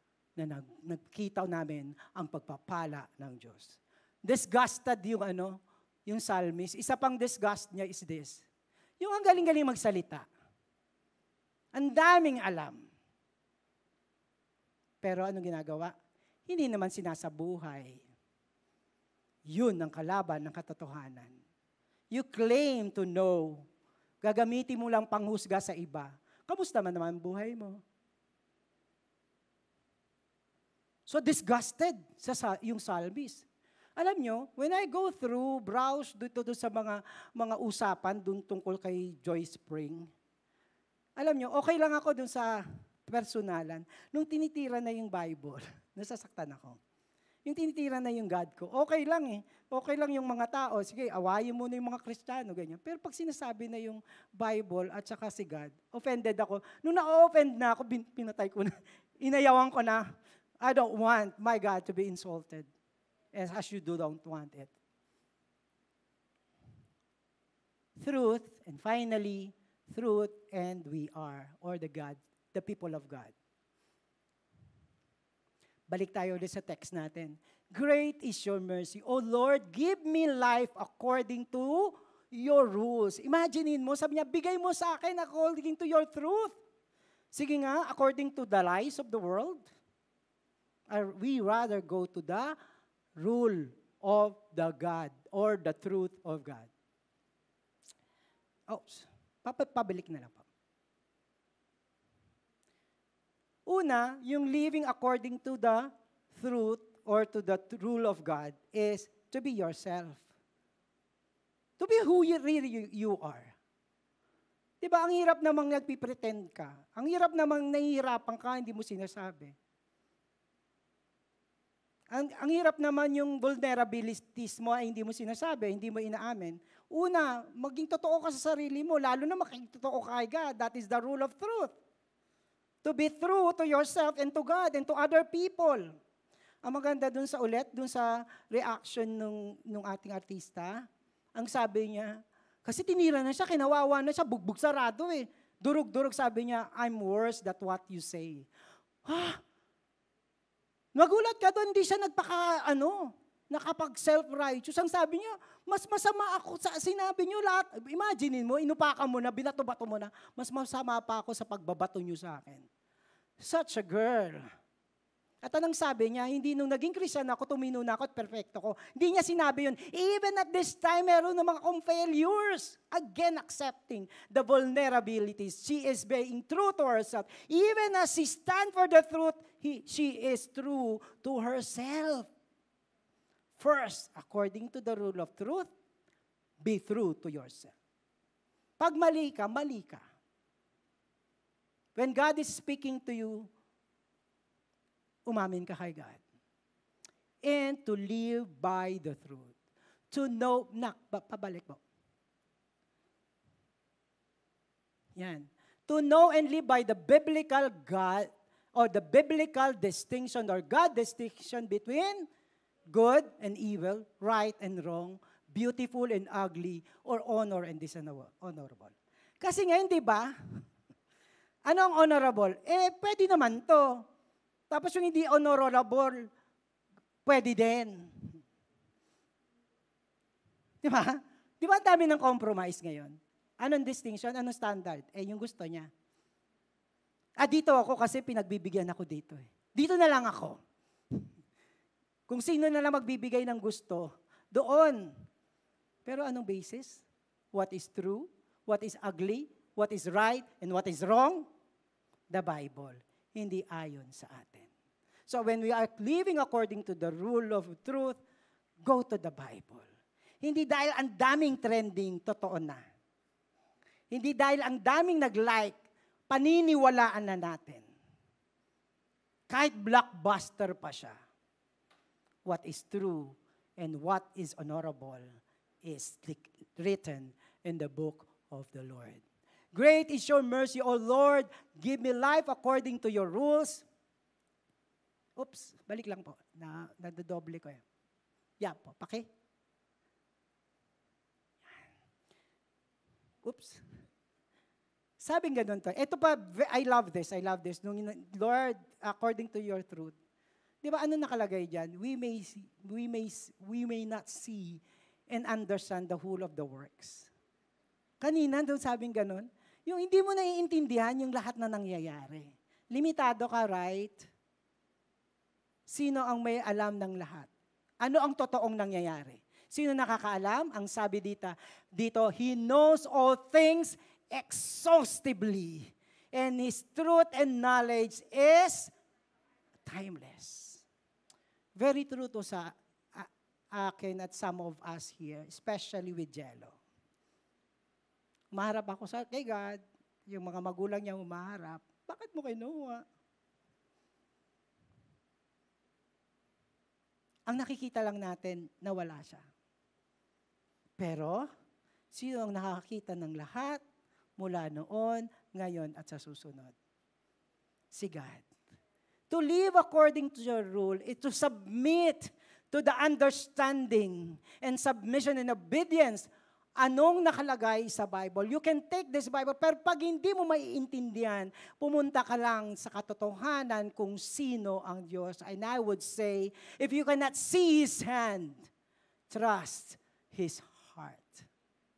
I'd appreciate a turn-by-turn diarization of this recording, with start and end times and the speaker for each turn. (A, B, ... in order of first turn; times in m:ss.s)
0:00.4-0:08.4 A
0:09.0-0:10.2 A
0:11.7-0:12.8 A
0:15.0-0:15.9 A
0:16.5-0:18.0 A
0:19.5-0:21.3 A
0:22.1-0:23.6 A
0:24.2-0:27.8 A
0:31.1-0:33.4 A
0:34.0-0:40.1 A
0:41.2-0:46.8 A
0:47.4-1:00.0 A
1:00.6-1:02.7 A
1:03.3-1:04.7 A
1:08.0-1:13.3 A
1:15.9-1:26.6 A
1:27.3-1:29.6 A
1:30.9-1:32.6 A
1:33.2-1:36.7 A
1:38.7-1:40.4 A
1:43.6-1:50.2 A
1:51.8-1:53.5 A
1:54.8-1:59.5 A
2:02.1-2:11.7 A
2:12.8-2:15.9 A
2:16.6-2:20.8 A
2:21.4-2:28.5 A
2:29.0-2:29.4 A
2:30.9-2:42.6 A
2:43.4-2:44.4 A
2:45.4-3:02.3 A
3:03.6-3:05.7 A
3:06.6-3:07.7 A
3:08.8-3:10.0 A
3:12.0-3:13.5 A
3:15.3-3:16.2 A
3:17.4-3:19.5 A
3:20.1-3:21.8 A
3:25.2-3:32.3 A
3:32.9-3:40.3 A
3:41.6-3:44.0 A
3:44.7-3:46.3 A
3:47.2-3:48.4 A
3:50.8-3:55.9 A
3:57.4-4:00.6 A
4:02.3-4:05.1 A
4:06.0-4:11.4 A
4:12.3-4:14.7 A
4:15.3-4:18.2 A
4:18.8-4:19.8 A
4:20.4-4:22.8 A
4:24.1-4:25.8 A
4:26.3-4:27.8 A
4:29.5-4:31.1 A
4:32.4-4:35.2 A
4:35.8-4:39.2 A
4:39.7-4:43.8 A
4:45.4-4:47.8 A
4:48.6-4:49.2 A
4:53.4-4:53.8 A
4:55.2-5:00.1 A
5:00.8-5:07.3 A
5:08.2-5:14.3 A
5:15.9-5:17.5 A
5:18.0-5:28.9 A
5:29.8-5:30.8 A
5:31.8-5:36.8 A
5:38.5-5:43.0 A
5:47.5-5:49.4 A
5:51.0-5:51.5 A
5:52.1-5:53.8 A
5:54.4-5:56.7 A
5:57.9-5:58.4 A
5:59.3-6:18.7 A
6:19.3-6:21.5 A